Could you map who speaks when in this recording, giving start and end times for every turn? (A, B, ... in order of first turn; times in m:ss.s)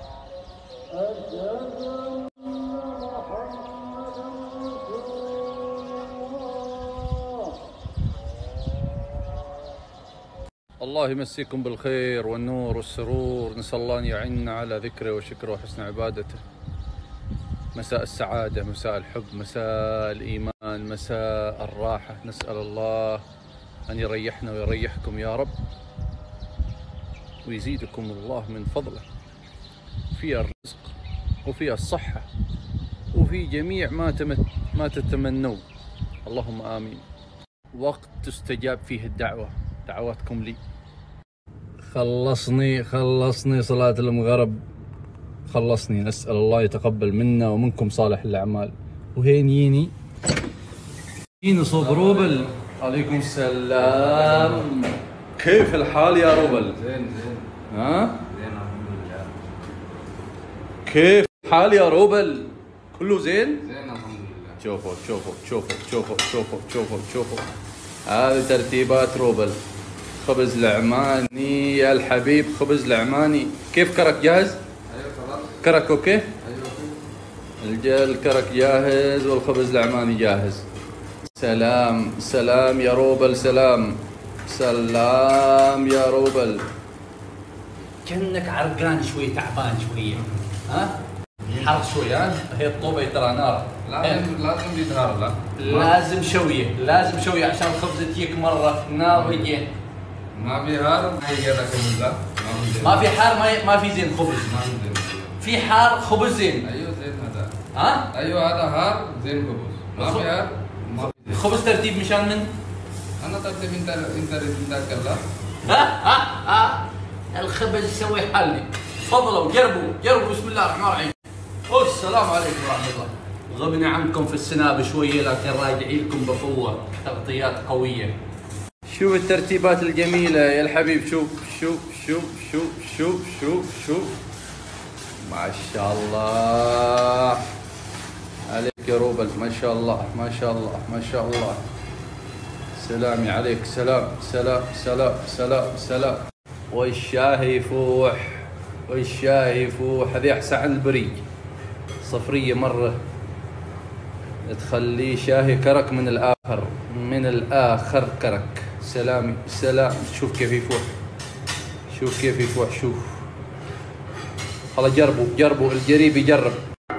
0:10.8-0:16.4 A
0:17.8-0:23.2 A
0:23.9-0:25.5 A
0:27.4-0:29.1 A
0:30.1-0:30.9 A
0:31.4-0:32.3 A
0:33.1-0:35.6 A
0:36.3-0:37.0 A
0:37.7-0:40.6 A
0:41.8-0:44.6 A
0:45.5-0:49.9 A
0:51.4-0:56.8 A
0:51.8-0:52.5 B
0:53.9-0:54.7 B
0:56.3-0:57.5 B
0:57.7-0:58.2 A
0:58.3-0:59.4 B
1:00.8-1:03.6 A
1:03.6-1:04.6 B
1:04.6-1:07.5 A
1:08.1-1:09.6 A
1:10.2-1:14.6 A
1:14.9-1:15.6 B
1:15.6-1:16.3 A
1:16.4-1:17.0 B
1:17.6-1:20.6 A
1:21.4-1:26.7 A
1:28.0-1:34.2 A
1:33.9-1:35.9 B
1:35.6-1:39.7 A
1:39.1-1:39.5 B
1:40.3-1:43.2 B
1:42.8-1:44.6 A
1:44.4-1:45.4 B
1:45.4-1:46.7 A
1:46.6-1:47.6 B
1:47.7-1:48.1 A
1:48.1-1:51.4 B
1:50.0-1:50.3 A
1:51.1-1:52.5 A
1:53.2-1:55.2 B
1:55.6-2:01.2 A
2:01.7-2:08.2 A
2:08.9-2:14.2 A
2:15.3-2:17.4 A
2:18.5-2:21.6 A
2:22.8-2:31.2 A
2:32.0-2:33.0 A
2:34.4-2:40.9 A
2:41.9-2:43.2 A
2:44.7-2:46.6 A